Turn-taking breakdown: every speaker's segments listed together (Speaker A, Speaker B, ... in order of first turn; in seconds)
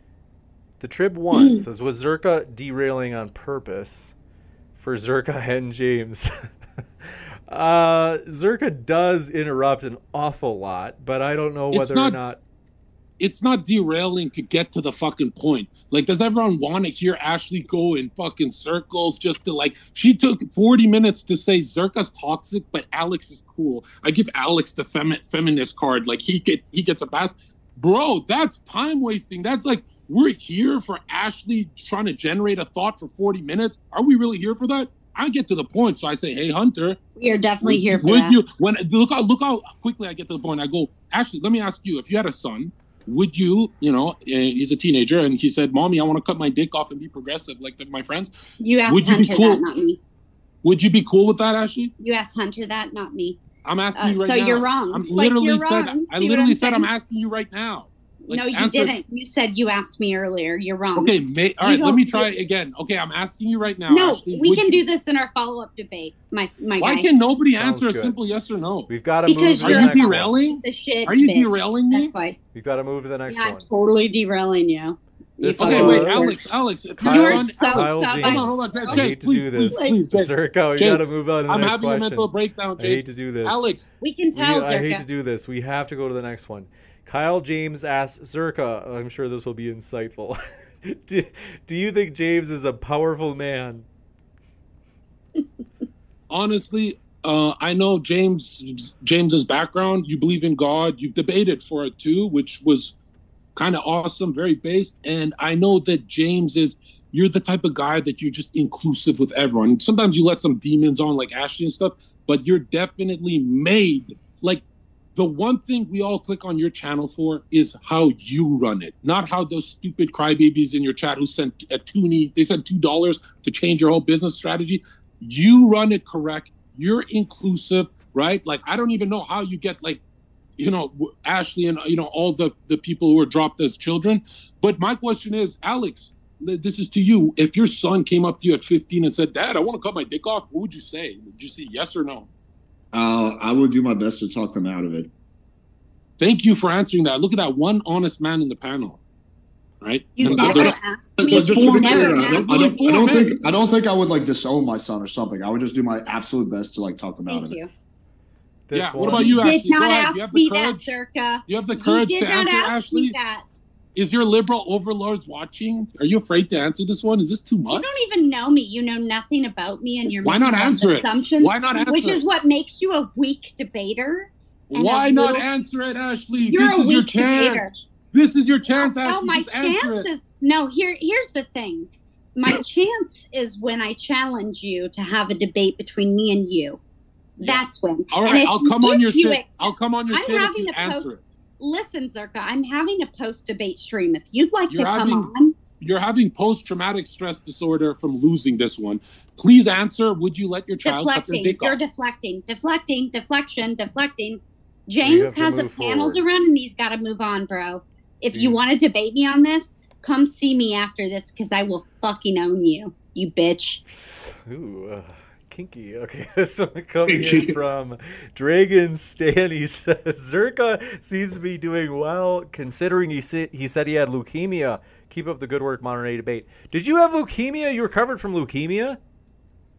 Speaker A: 0.8-4.1, 4.8-6.5, 7.0-12.4, 67.6-68.2, 68.9-70.3, 72.5-73.7, 75.4-76.4, 77.0-83.7, 84.3-93.8, 158.7-159.4, 205.0-206.2, 208.3-208.6, 213.9-229.0
Speaker B: 11.7-12.2, 13.2-37.0, 37.6-48.3, 48.9-49.6, 50.6-51.9, 53.6-59.0, 61.0-64.9, 66.8-68.9, 69.6-72.1, 75.6-83.9, 96.3-103.0, 103.6-114.6, 115.2-130.0, 130.6-142.3, 146.2-149.0, 149.8-153.4, 158.7-163.2, 163.9-168.0, 170.2-172.2, 174.7-180.1, 187.4-191.2, 194.7-201.8
Speaker C: 37.2-38.4, 48.6-50.0, 52.0-53.4, 54.0-56.9, 58.3-62.3, 63.9-67.1, 69.3-72.4, 73.3-76.5, 77.1-79.1, 79.7-80.0, 84.0-85.0, 150.2-153.1, 157.3-157.7, 159.3-163.5, 167.7-175.7, 176.5-177.8, 178.8-186.8, 187.4-195.6, 200.8-213.8
Speaker D: 142.9-145.1, 150.2-157.6, 159.1-159.4, 217.1-217.5